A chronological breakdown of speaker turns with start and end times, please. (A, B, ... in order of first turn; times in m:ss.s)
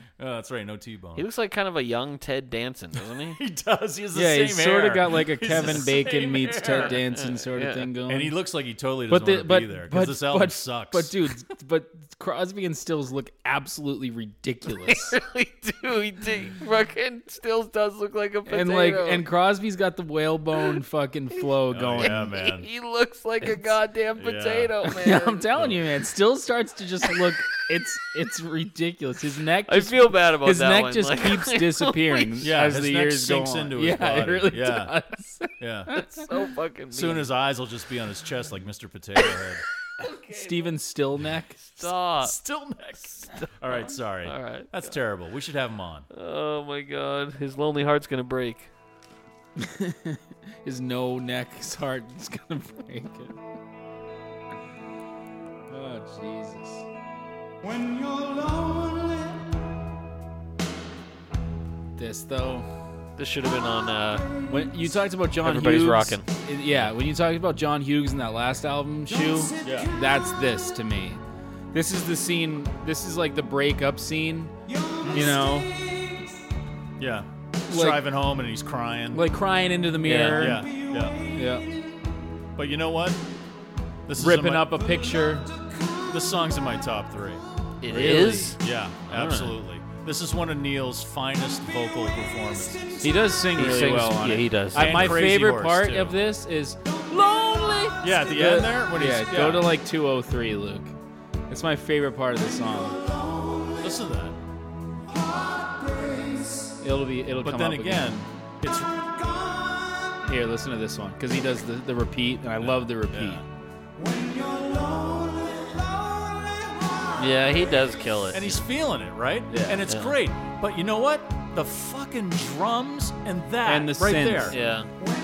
0:00.2-0:01.3 A
0:01.2-0:03.4 B
0:03.3-0:07.0 A
0:04.1-0:08.3 C
0:05.5-0:05.9 B
0:06.6-0:07.9 B
0:08.1-0:11.1 A
0:09.1-0:15.2 C
0:14.8-0:19.2 B
0:18.5-0:22.2 C
0:21.7-0:22.7 A
0:22.0-0:25.5 B
0:24.2-0:24.7 A
0:24.9-0:36.0 C
0:25.6-0:25.8 A
0:29.7-0:32.5 B
0:32.4-0:35.0 A
0:35.6-0:36.0 A
0:35.9-0:37.3 B
0:36.9-0:39.6 A
0:40.0-0:40.8 B
0:40.3-0:41.6 C
0:41.7-0:42.4 B
0:41.8-0:46.1 A
0:43.3-0:44.9 B
0:46.1-0:48.7 B
0:49.6-0:53.4 C
0:55.7-0:56.9 C
1:02.0-1:02.7 C
1:03.2-1:04.3 B
1:04.5-1:11.2 C
1:05.4-1:06.2 B
1:09.6-1:09.9 A
1:11.7-1:14.5 C
1:15.0-1:15.4 A
1:15.1-1:15.8 C
1:17.0-1:19.3 A
1:17.7-1:18.0 C
1:19.1-1:20.7 C
1:20.0-1:20.6 B
1:20.3-1:21.2 A
1:21.3-1:21.7 C
1:22.6-1:23.2 A
1:24.1-1:24.9 A
1:24.2-1:25.5 C
1:26.1-1:27.4 A
1:27.8-1:29.6 B
1:27.9-1:28.6 C
1:28.6-1:33.3 A
1:33.0-1:41.0 C
1:33.6-1:35.2 B
1:34.7-1:36.2 A
1:38.0-1:39.8 A
1:41.5-1:43.0 C
1:43.8-1:44.4 A
1:46.8-1:48.2 C
1:47.4-1:49.1 A
1:50.3-1:53.4 C
1:52.6-1:53.4 A
1:57.2-1:58.6 B
1:58.3-2:04.6 A
1:59.5-1:59.8 C
1:59.9-2:00.2 B
2:03.7-2:04.6 C
2:04.5-2:04.9 B